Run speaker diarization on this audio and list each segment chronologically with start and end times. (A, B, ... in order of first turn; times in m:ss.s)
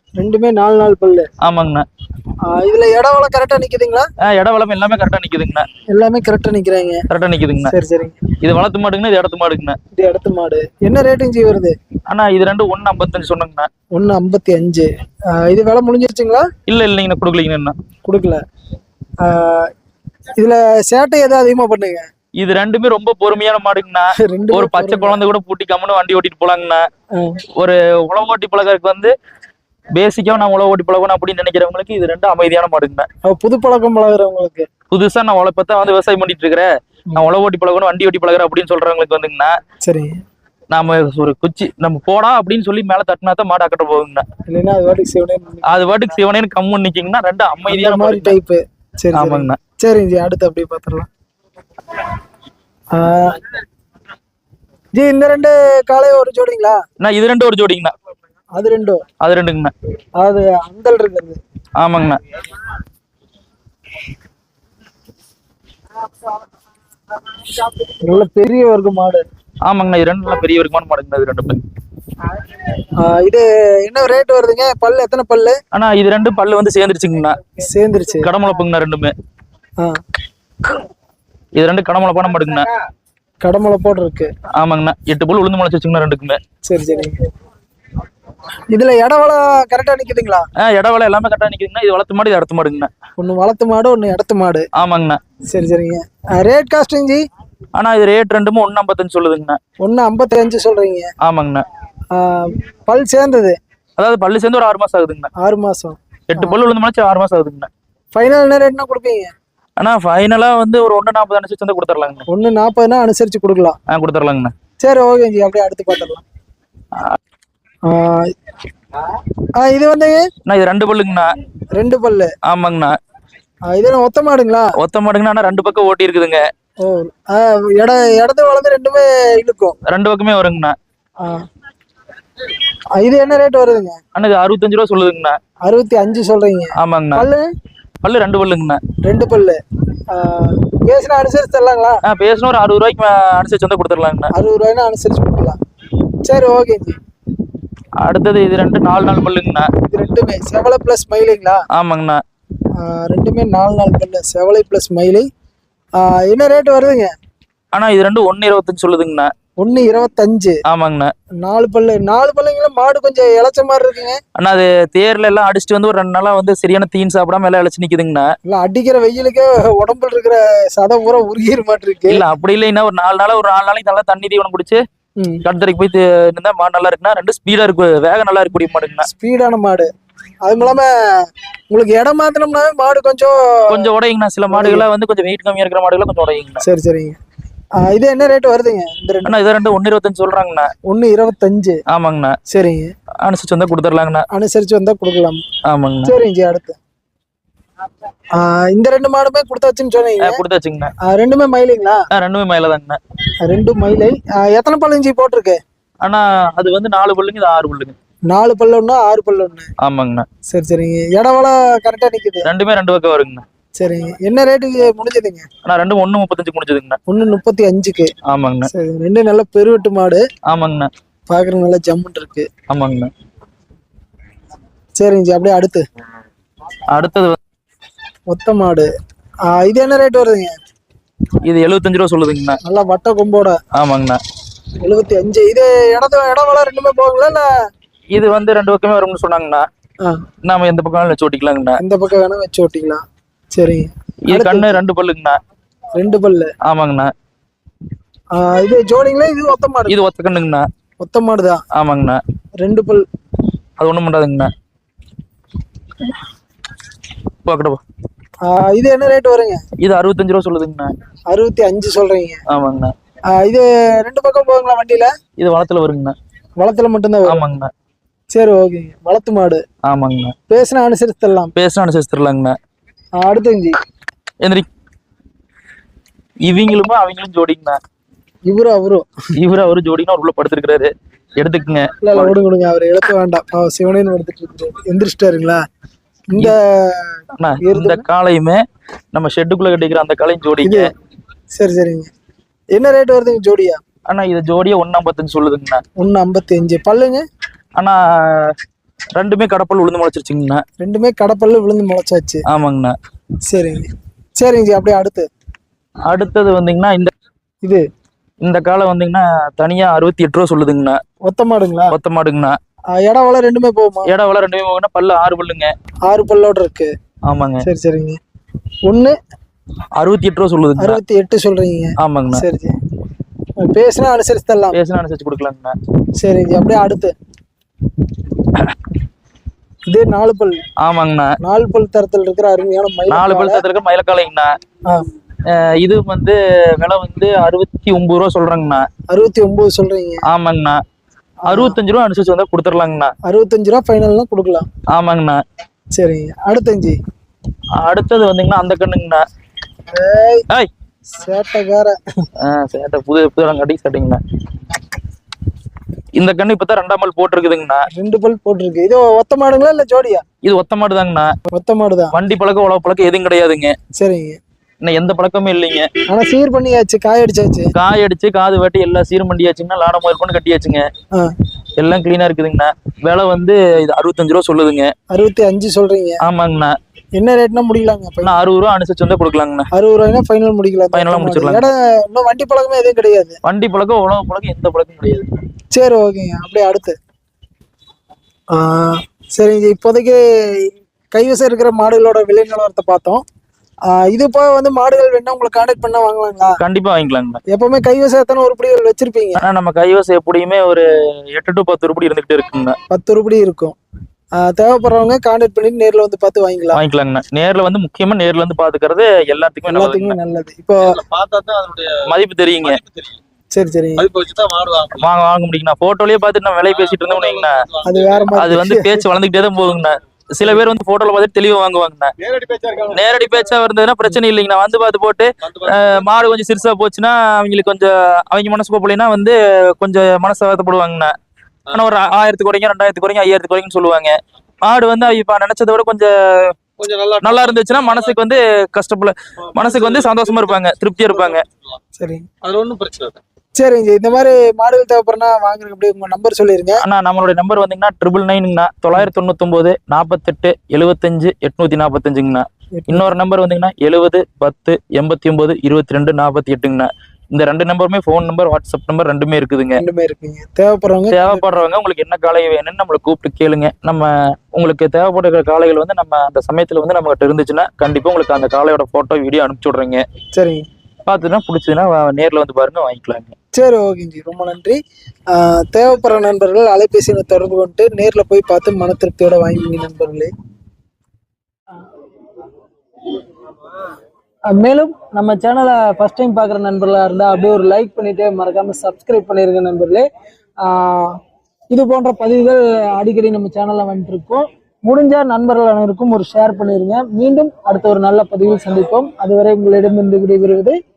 0:00.2-0:01.3 A
0:01.4-0:01.9 B
0:02.5-0:04.1 A
0:04.2-0:05.7 B
0:05.9-0:07.0 A
0:07.1-0:07.8 B
0:07.6-0:08.2 A
0:08.4-0:09.8 B
0:10.0-0:11.8 A
0:12.1-0:13.7 B
0:14.0-0:16.5 A
0:16.7-0:17.8 B
0:18.1-0:18.4 A
0:19.2-0:19.7 A
0:20.4-0:22.1 A
0:22.4-0:26.9 B
0:24.2-0:25.2 A
0:27.2-0:27.4 A
0:27.6-0:29.1 B
0:30.0-0:33.1 B
0:33.2-0:34.7 A
0:34.9-0:39.6 B
0:39.8-0:40.2 A
0:40.7-0:44.2 B
0:44.5-0:46.0 A
0:45.7-0:48.4 B
0:47.7-0:51.1 A
0:49.1-0:49.6 B
0:52.9-0:53.6 A
0:55.0-0:56.8 A
0:57.0-0:57.9 B
0:58.6-0:59.0 A
0:59.2-0:59.7 B
1:00.2-1:01.4 A
1:01.8-1:02.2 B
1:07.7-1:09.2 A
1:09.7-1:11.6 B
1:13.0-1:15.6 A
1:15.7-1:17.4 B
1:17.6-1:18.3 A
1:18.2-1:19.2 B
1:21.6-1:22.7 B
1:23.4-1:24.3 A
1:24.6-1:26.4 B
1:26.7-1:27.2 A
1:28.7-1:30.5 A
1:30.6-1:32.9 B
1:33.2-1:34.7 A
1:34.8-1:35.2 B
1:35.5-1:37.2 A
1:37.7-1:39.6 B
1:39.8-1:41.1 A
1:41.2-1:41.7 B
1:42.1-1:43.6 A
1:44.0-1:45.3 B
1:45.4-1:46.6 A
1:46.3-1:47.7 B
1:48.1-1:49.3 A
1:49.8-1:52.3 B
1:52.3-1:53.8 A
1:53.9-1:54.5 B
1:54.8-1:56.2 A
1:57.9-1:58.3 A
1:59.6-2:00.3 A
2:00.5-2:01.3 B
2:01.8-2:02.3 A
2:02.4-2:03.0 B
2:03.7-2:04.8 A
2:04.8-2:06.4 B
2:06.8-2:09.8 A
2:09.9-2:10.8 B
2:13.0-2:14.0 A
2:14.2-2:15.4 B
2:15.7-2:17.5 A
2:16.8-2:17.3 B
2:18.0-2:18.8 B
2:19.0-2:19.6 A
2:20.1-2:22.0 A
2:22.0-2:24.3 B
2:24.3-2:25.6 A
2:26.2-2:27.0 A
2:28.0-2:29.7 B
2:29.9-2:31.6 A
2:31.8-2:32.2 B
2:32.8-2:35.3 A
2:36.0-2:37.1 A
2:37.7-2:39.3 B
2:39.6-2:40.6 A
2:40.7-2:41.1 B
2:41.4-2:44.2 A
2:44.4-2:48.3 B
2:48.5-2:52.2 A
2:52.1-2:54.8 B
2:55.2-2:55.4 A
2:55.4-2:59.1 B
2:59.0-2:59.9 A
3:00.4-3:03.9 A
3:03.7-3:06.6 B
3:04.5-3:04.9 A
3:06.6-3:07.2 A
3:07.8-3:09.4 A
3:09.2-3:10.7 B
3:10.9-3:11.8 A
3:11.9-3:12.4 B
3:12.5-3:12.9 A
3:13.2-3:14.3 B
3:14.3-3:15.4 A
3:15.7-3:16.2 B
3:16.0-3:16.8 A
3:18.4-3:20.4 A
3:20.2-3:20.9 B
3:21.0-3:22.0 A
3:22.1-3:23.0 B
3:23.4-3:25.6 A
3:26.0-3:28.0 B
3:28.3-3:29.7 A
3:29.8-3:30.3 B
3:30.5-3:32.5 A
3:32.4-3:33.4 B
3:33.8-3:35.5 A
3:35.6-3:37.0 B
3:37.1-3:38.1 A
3:38.3-3:38.7 B
3:38.7-3:40.2 A
3:40.5-3:40.9 B
3:41.3-3:42.5 A
3:42.7-3:43.1 B
3:45.0-3:45.8 A
3:46.9-3:47.4 B
3:48.3-3:48.9 A
3:49.5-3:50.6 A
3:51.4-3:52.6 B
3:52.6-3:53.6 A
3:53.7-3:54.2 B
3:54.8-3:57.5 A
3:58.1-3:59.6 B
4:00.4-4:01.8 B
4:01.8-4:03.0 A
4:03.5-4:04.8 A
4:04.3-4:05.4 B
4:06.0-4:06.5 A
4:06.6-4:07.1 B
4:08.3-4:10.0 A
4:09.9-4:10.6 B
4:11.0-4:11.6 A
4:11.8-4:12.2 B
4:12.6-4:13.0 A
4:13.8-4:14.5 B
4:17.4-4:17.8 B
4:18.5-4:19.6 A
4:19.8-4:20.9 B
4:21.3-4:22.4 A
4:22.5-4:22.9 B
4:23.3-4:25.1 A
4:25.4-4:26.2 B
4:26.6-4:27.4 A
4:27.2-4:27.7 B
4:28.3-4:29.6 A
4:29.9-4:30.3 B
4:30.5-4:31.5 A
4:31.6-4:32.5 B
4:33.2-4:33.8 A
4:36.5-4:37.8 B
4:38.5-4:39.1 A
4:39.4-4:42.4 B
4:42.0-4:45.6 A
4:46.3-4:48.0 A
4:47.4-4:48.6 B
4:49.1-4:50.9 B
4:50.6-4:50.9 A
4:51.6-4:52.1 A
4:52.7-4:53.8 A
4:54.1-4:55.8 B
4:56.0-4:57.2 A
4:57.8-4:58.5 B
4:59.2-5:00.6 B
5:00.8-5:02.4 A
5:02.5-5:03.0 B
5:03.5-5:03.8 A
5:04.4-5:05.3 A
5:06.1-5:07.1 B
5:08.4-5:11.0 B
5:11.3-5:12.0 A
5:11.9-5:12.6 B
5:12.9-5:14.1 A
5:14.0-5:15.7 B
5:16.1-5:16.9 A
5:17.3-5:17.6 B
5:17.6-5:18.2 A
5:18.9-5:19.2 A
5:20.0-5:21.0 B
5:20.8-5:22.8 A
5:22.0-5:22.4 B
5:23.6-5:24.8 A
5:24.7-5:25.8 B
5:26.2-5:27.1 A
5:29.9-5:30.6 A
5:30.8-5:31.4 B
5:31.4-5:33.6 A
5:33.1-5:34.5 B
5:35.5-5:38.9 B
5:39.1-5:40.2 A
5:40.3-5:40.8 B
5:41.5-5:41.8 A
5:41.5-5:43.1 B
5:43.3-5:44.7 A
5:44.9-5:45.4 B
5:46.0-5:47.0 A
5:47.8-5:49.2 B
5:49.9-5:50.4 A
5:51.1-5:52.0 A
5:52.4-5:54.2 B
5:56.2-5:57.8 B
5:57.9-6:00.2 A
6:00.4-6:01.3 B
6:01.5-6:02.2 A
6:02.1-6:03.8 B
6:04.0-6:04.4 A
6:04.8-6:05.9 B
6:06.1-6:07.7 A
6:07.8-6:10.9 B
6:11.8-6:14.9 B
6:15.1-6:16.2 A
6:16.2-6:16.8 B
6:17.2-6:18.4 A
6:18.2-6:19.7 B
6:19.7-6:23.4 A
6:20.9-6:21.7 B
6:23.4-6:25.3 B
6:25.7-6:27.0 A
6:28.5-6:33.2 A
6:33.9-6:36.6 A
6:36.6-6:37.4 B
6:37.5-6:39.4 A
6:39.4-6:42.8 B
6:42.9-6:43.8 A
6:44.4-6:46.8 A
6:46.7-6:50.2 B
6:49.7-6:51.0 A
6:50.9-6:52.1 C
6:52.0-6:52.8 B
6:53.5-6:54.1 A
6:54.1-6:55.0 C
6:54.9-6:57.6 B
6:57.0-6:58.0 C
6:57.8-6:59.1 A
6:58.3-7:02.1 B
7:02.4-7:02.8 A
7:02.9-7:11.1 B
7:11.7-7:16.5 B
7:16.8-7:18.0 C
7:17.2-7:21.4 B
7:19.6-7:20.3 C
7:22.0-7:22.3 A
7:22.4-7:23.2 C
7:23.6-7:26.8 A
7:26.8-7:39.8 B
7:32.8-7:33.1 A
7:39.8-7:41.5 A
7:41.1-7:50.0 B
7:50.4-7:50.6 A
7:51.0-7:53.3 B
7:53.5-7:54.8 A
7:55.3-8:00.3 A
8:04.5-8:10.1 A
8:10.6-8:11.2 A
8:11.7-8:20.8 A